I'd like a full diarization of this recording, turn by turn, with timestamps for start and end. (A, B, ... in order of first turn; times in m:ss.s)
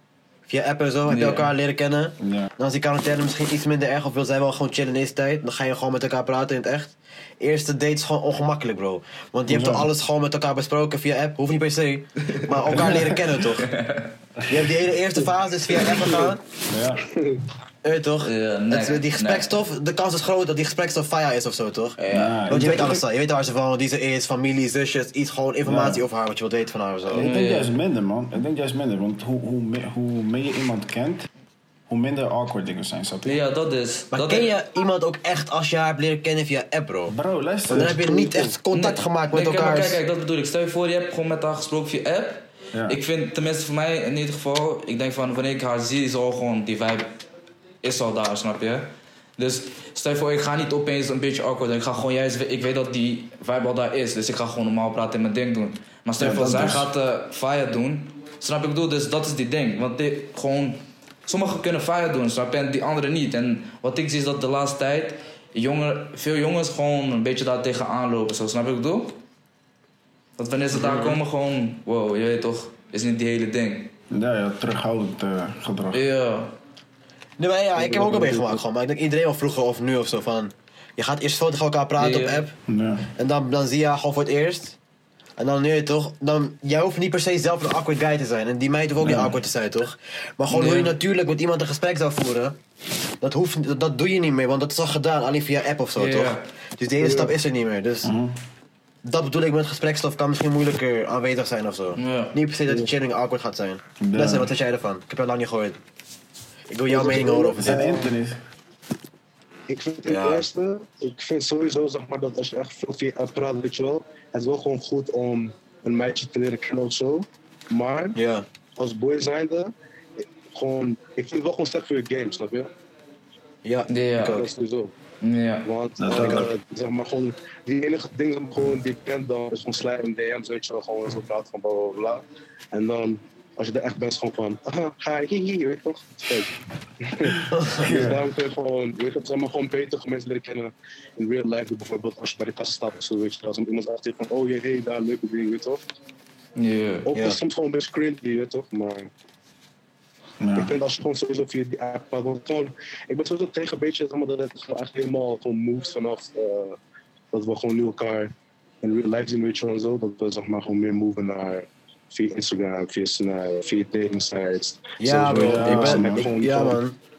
0:00.5-0:13.7 A
0:01.1-0:01.5 B
0:02.2-0:02.5 C
0:09.5-0:09.9 C
0:12.4-0:14.2 B
0:14.5-0:16.4 A
0:15.9-0:16.3 D
0:16.7-0:17.0 C
0:17.0-0:17.4 D
0:17.8-0:27.3 A
0:18.2-0:19.6 B
0:22.0-0:22.9 B
0:22.1-0:23.0 C
0:25.6-0:26.0 C
0:27.1-0:31.3 C
0:27.2-0:27.7 B
0:31.9-0:33.4 C
0:33.2-0:34.5 B
0:34.1-0:37.1 A
0:37.1-0:38.0 C
0:37.7-0:40.0 A
0:38.0-0:38.5 D
0:38.7-0:47.1 B
0:42.7-0:43.0 C
0:47.8-1:09.2 B
0:56.2-0:56.9 C
1:10.4-1:13.9 B
1:10.8-1:11.1 C
1:14.1-1:16.0 C
1:15.9-1:16.5 B
1:17.4-1:22.5 A
1:17.8-1:18.6 D
1:22.0-1:22.4 B
1:22.7-1:23.1 C
1:23.2-1:24.8 A
1:25.4-1:32.6 A
1:29.0-1:29.3 C
1:30.5-1:31.0 B
1:33.2-1:38.1 A
1:36.0-1:36.4 B
1:37.0-1:37.3 D
1:38.0-1:38.4 C
1:39.0-1:45.8 A
1:42.0-1:42.4 B
1:44.0-1:44.5 C
1:46.7-1:47.9 A
1:46.9-1:48.1 D
1:47.6-1:48.4 C
1:49.7-1:58.2 D
1:50.1-1:50.5 A
1:58.1-1:58.4 A
1:58.8-2:02.7 D
2:03.6-2:04.5 A
2:03.9-2:04.4 B
2:04.2-2:04.9 D
2:05.2-2:05.7 B
2:05.6-2:25.8 D
2:06.0-2:06.5 C
2:06.1-2:06.5 A
2:17.3-2:18.2 C
2:26.6-2:27.1 B
2:27.1-2:29.1 D
2:27.1-2:27.4 A
2:30.4-2:30.7 C
2:30.6-2:36.8 D
2:37.3-2:46.8 D
2:45.0-2:47.0 A
2:45.3-2:46.3 C